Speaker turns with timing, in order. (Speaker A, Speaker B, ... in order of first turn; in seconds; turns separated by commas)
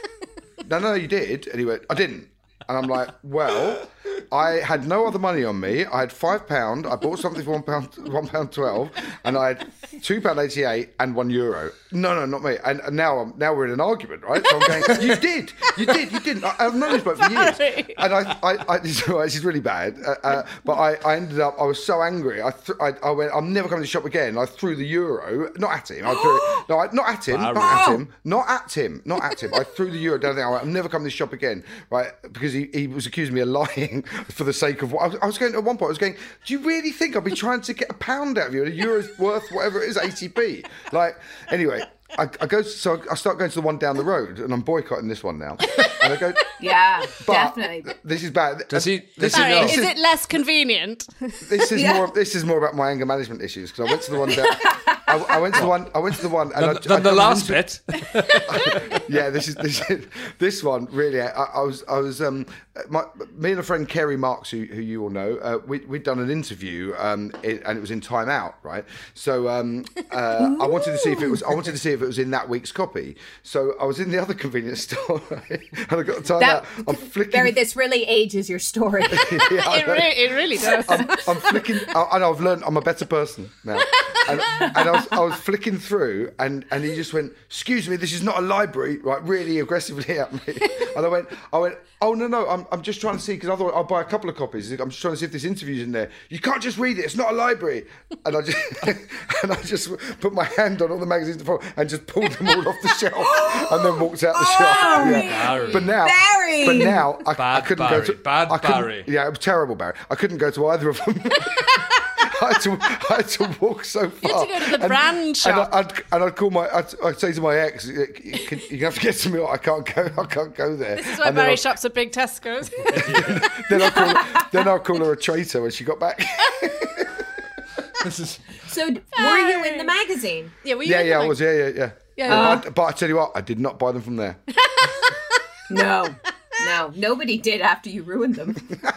Speaker A: 0.6-50.0, Speaker B: 14.6-15.1, Speaker B: 16.8-18.1, Speaker C: 26.2-26.6, Speaker D: 27.3-28.0, Speaker B: 45.8-46.2, Speaker C: 46.6-47.9, Speaker D: 48.7-49.9, Speaker B: 49.3-51.5, Speaker A: 51.4-57.7, Speaker C: 51.7-52.1, Speaker C: 54.5-55.4, Speaker D: 56.5-59.0, Speaker A: 58.5-77.6, Speaker C: 70.4-71.3, Speaker C: 76.4-79.5, Speaker A: 79.1-121.7, Speaker B: 79.5-81.9, Speaker B: 84.0-85.1, Speaker C: 103.2-107.1, Speaker B: 104.8-105.8, Speaker D: 105.3-106.0, Speaker D: 107.3-109.1, Speaker B: 114.2-115.7, Speaker B: 121.0-123.3, Speaker D: 122.9-123.5, Speaker A: 122.9-127.4, Speaker B: 123.9-124.2, Speaker D: 128.0-128.4, Speaker C: 128.6-130.5, Speaker B: 129.2-130.0, Speaker B: 130.6-131.4, Speaker A: 130.8-134.4, Speaker B: 132.2-132.6, Speaker C: 132.3-132.6, Speaker B: 134.7-135.1, Speaker C: 135.7-138.7